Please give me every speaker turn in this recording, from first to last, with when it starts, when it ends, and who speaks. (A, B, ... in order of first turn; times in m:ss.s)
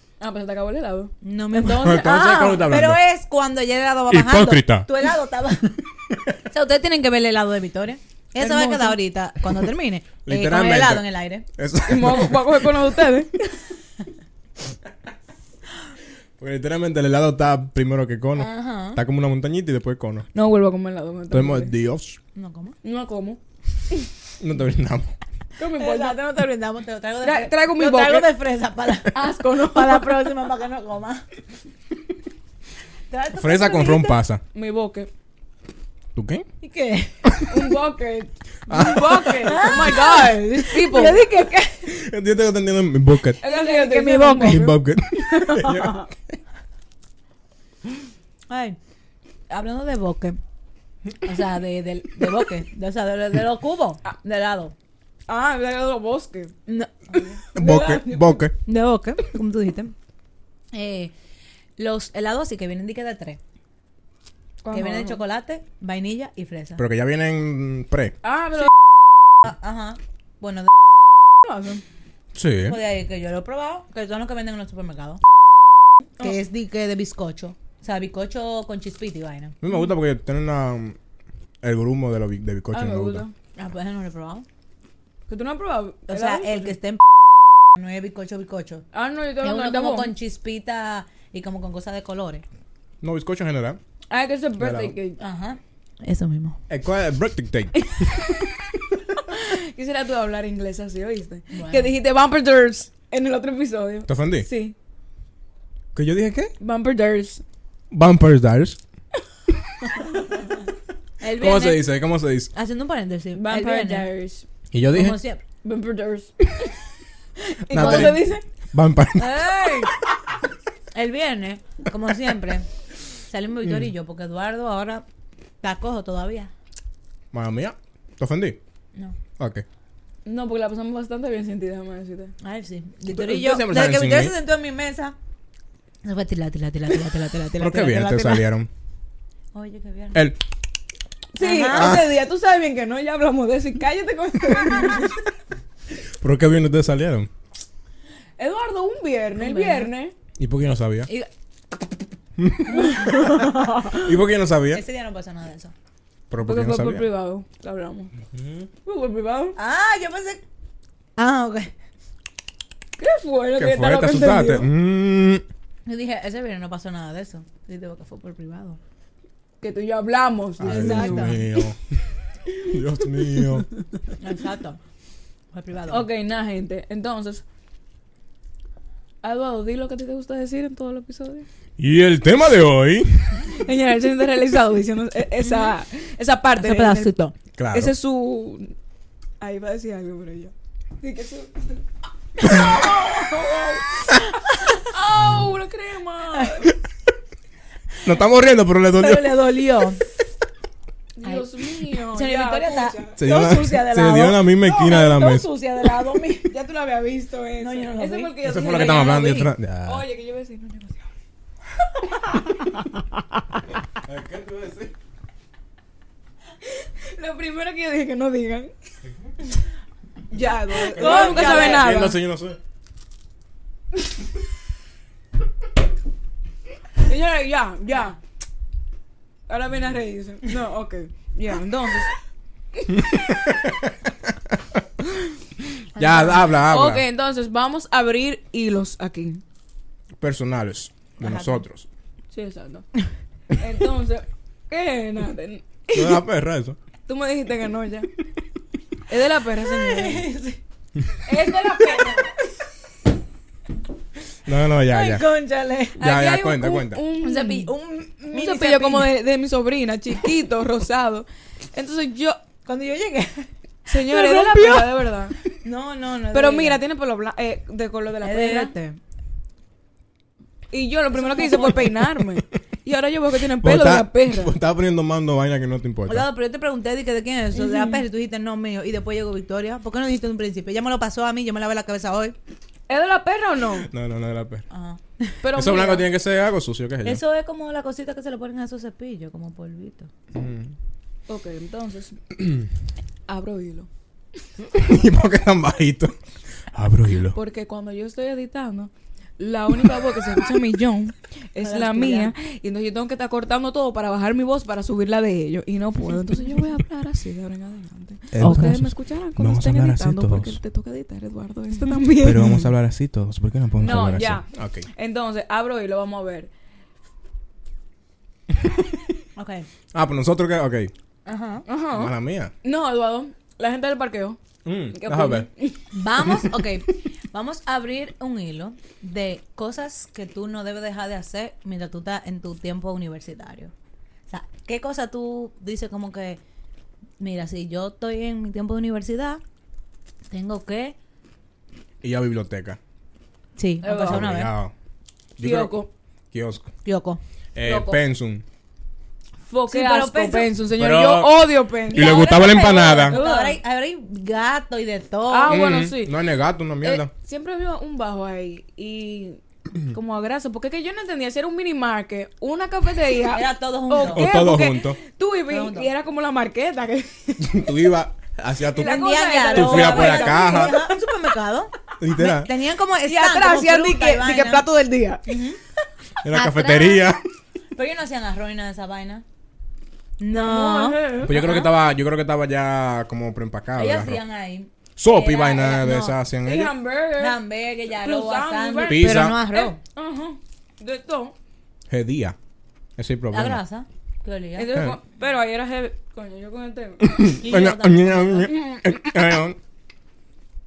0:00.2-0:01.1 A
0:01.2-0:05.8 B
0:01.6-0:03.0 C
0:04.1-0:04.9 C
0:06.5-0:11.4 B
0:08.4-0:08.9 A
0:09.4-0:09.7 C
0:10.2-0:12.7 C
0:11.9-0:13.6 A
0:16.4-0:20.3 C
0:18.4-0:19.0 B
0:20.3-0:21.7 A
0:21.3-0:22.2 C
0:22.3-0:22.8 B
0:22.8-0:23.4 A
0:24.4-0:25.1 C
0:25.6-0:26.2 A
0:25.8-0:31.2 B
0:27.2-0:28.3 A
0:29.1-0:30.3 A
0:33.1-0:34.2 B
0:33.3-0:34.4 C
0:34.5-0:35.1 A
0:36.1-0:36.4 C
0:36.6-0:37.2 B
0:37.2-0:37.6 C
0:37.5-0:41.2 A
0:38.7-0:40.0 C
0:39.5-0:41.9 B
0:41.8-0:43.4 C
0:43.4-0:44.7 A
0:43.4-0:44.7 B
0:44.4-0:46.0 C
0:45.3-0:45.8 A
0:45.4-0:46.0 B
0:48.5-0:48.8 B
0:49.5-0:50.4 B
0:51.2-0:54.7 B
0:55.3-0:56.5 A
0:56.7-0:57.9 B
0:57.5-0:58.4 A
0:57.5-0:58.6 C
0:58.6-0:59.9 B
1:00.7-1:01.1 B
1:01.8-1:03.4 B
1:04.6-1:05.2 A
1:04.7-1:06.8 B
1:06.8-1:08.1 C
1:08.2-1:08.7 A
1:09.4-1:10.7 B
1:11.4-1:11.8 A
1:12.3-1:12.8 C
1:12.7-1:15.2 B
1:16.2-1:19.6 B
1:19.6-1:21.0 C
1:21.6-1:23.2 C
1:22.7-1:23.3 A
1:23.6-1:24.4 B
1:25.3-1:26.7 A
1:26.1-1:27.0 B
1:27.7-1:28.8 B
1:28.9-1:30.1 A
1:29.4-1:32.4 B
1:33.0-1:33.8 C
1:34.1-1:35.2 A
1:34.6-1:35.0 C
1:35.2-1:36.6 B
1:36.7-1:38.2 C
1:37.8-1:38.2 A
1:39.2-1:44.7 A
1:41.5-1:41.9 B
1:44.1-1:44.5 C
1:45.9-1:46.5 C
1:46.6-1:47.4 A
1:47.9-1:48.8 C
1:51.2-1:51.8 B
1:51.4-1:52.5 C
1:52.5-1:54.1 B
1:53.3-1:54.4 A
1:54.7-1:55.2 C
1:54.9-1:55.4 B
1:55.6-1:56.8 A
1:57.4-1:58.4 A
1:57.7-1:59.9 C
1:57.7-1:58.2 B
1:59.2-1:59.9 A
2:00.9-2:02.7 B
2:03.2-2:05.0 B
2:05.6-2:06.5 B
2:07.3-2:08.6 C
2:09.4-2:09.6 C
2:10.2-2:12.3 A
2:12.4-2:15.1 B
2:13.1-2:14.3 C
2:16.0-2:18.4 B
2:17.6-2:18.7 C
2:19.5-2:20.3 B
2:20.1-2:20.4 C
2:21.3-2:25.3 A
2:21.4-2:22.0 B
2:21.7-2:22.1 C
2:26.2-2:27.3 C
2:28.4-2:30.1 A
2:29.4-2:29.9 B
2:30.4-2:31.1 C
2:32.4-2:33.3 C
2:32.8-2:34.0 A
2:33.9-2:34.8 C
2:34.7-2:35.7 B
2:36.3-2:37.1 C
2:36.4-2:38.1 A
2:38.3-2:38.7 C
2:38.8-2:39.6 A
2:39.6-2:40.4 B
2:41.2-2:41.7 B
2:43.0-2:44.7 A
2:43.6-2:45.4 C
2:45.8-2:48.8 B
2:49.6-2:51.7 A
2:50.6-2:52.0 C
2:50.6-2:51.4 B
2:52.5-2:53.6 A
2:52.6-2:53.7 C
2:54.2-2:54.8 B
2:55.5-2:56.0 B
2:55.9-2:57.4 A
2:59.2-3:01.4 A
3:01.8-3:03.5 C
3:03.5-3:07.1 A
3:05.4-3:05.7 B
3:06.6-3:07.3 B
3:07.6-3:07.9 C
3:07.7-3:08.7 A
3:09.4-3:11.8 A
3:12.4-3:16.7 A
3:18.0-3:19.4 C
3:19.0-3:20.0 B
3:21.2-3:23.2 A
3:22.0-3:26.5 B
3:23.2-3:25.5 C
3:26.4-3:31.1 A
3:27.6-3:29.5 B
3:28.4-3:30.0 C
3:33.9-3:34.9 C
3:36.6-3:38.7 A
3:40.3-3:42.2 A
3:40.8-3:41.9 B
3:40.9-3:42.6 C
3:47.0-3:48.2 A
3:49.5-3:52.1 A
3:52.9-3:54.8 C
3:56.0-3:56.4 B
3:56.0-3:57.0 C
3:56.5-3:59.4 A
4:00.2-4:01.9 C
4:01.2-4:01.6 B
4:02.3-4:02.9 A
4:03.5-4:06.2 A
4:05.9-4:06.8 C
4:07.1-4:08.1 A
4:09.1-4:10.3 A
4:09.8-4:10.6 B
4:11.2-4:12.3 A
4:11.8-4:12.3 B
4:14.4-4:15.2 C
4:14.9-4:16.0 B
4:16.0-4:17.0 C
4:16.0-4:17.7 A
4:17.2-4:19.1 B
4:18.3-4:22.4 A
4:22.6-4:26.8 B
4:23.9-4:25.4 A
4:26.3-4:28.7 A
4:28.2-4:29.0 B
4:30.7-4:34.5 A
4:31.1-4:32.0 B
4:33.6-4:36.3 C
4:36.1-4:42.3 B
4:37.5-4:38.0 A
4:42.9-4:43.9 A
4:43.8-4:44.6 C
4:44.7-4:45.4 B
4:45.4-4:46.0 A
4:45.5-4:47.2 C
4:47.0-4:50.1 B
4:50.3-4:50.7 C
4:51.3-4:52.2 A
4:52.4-4:52.6 C
4:53.3-4:53.9 A
4:54.6-4:56.1 C
4:56.7-4:57.4 C
4:57.3-5:12.6 A
5:01.6-5:02.3 B
5:08.3-5:10.6 C
5:08.4-5:08.8 B
5:12.2-5:14.9 C
5:13.8-5:16.5 A
5:19.4-5:19.7 B
5:19.9-5:20.9 C
5:21.2-5:21.6 B
5:21.6-5:24.4 A
5:21.9-5:22.5 C
5:24.6-5:25.5 C
5:24.9-5:25.8 A
5:25.9-5:33.7 B
5:34.3-5:36.4 B
5:37.2-5:39.4 B
5:40.3-5:41.0 B
5:42.0-5:42.8 C
5:43.6-5:44.5 B
5:43.8-5:44.3 A
5:44.0-5:44.7 C
5:45.4-5:45.7 C
5:45.4-5:45.9 A
5:46.3-5:46.7 C
5:46.8-5:47.2 B
5:47.5-5:48.4 C
5:47.6-5:48.0 A
5:49.5-5:53.6 A
5:49.7-5:50.5 B
5:50.7-5:53.2 C
5:51.9-5:55.7 B
5:55.3-5:56.2 A
5:55.5-5:57.1 C
5:56.8-6:07.8 A
6:03.3-6:04.3 B
6:04.0-6:05.0 C
6:05.5-6:05.9 B
6:07.4-6:10.8 C
6:08.7-6:10.9 A
6:08.8-6:14.6 B
6:12.0-6:12.5 C
6:13.0-6:15.2 A
6:15.3-6:15.6 B
6:16.2-6:17.2 C
6:16.3-6:17.1 B
6:17.7-6:19.2 B
6:20.2-6:21.6 B
6:20.3-6:21.6 A
6:21.2-6:24.2 C
6:23.8-6:26.2 B
6:25.0-6:26.7 C
6:26.4-6:31.3 A
6:27.2-6:29.8 B
6:28.8-6:29.4 C
6:31.9-6:32.4 C
6:33.0-6:33.6 C
6:33.3-6:34.9 B
6:34.6-6:37.2 A
6:37.0-6:39.6 C
6:37.3-6:38.5 B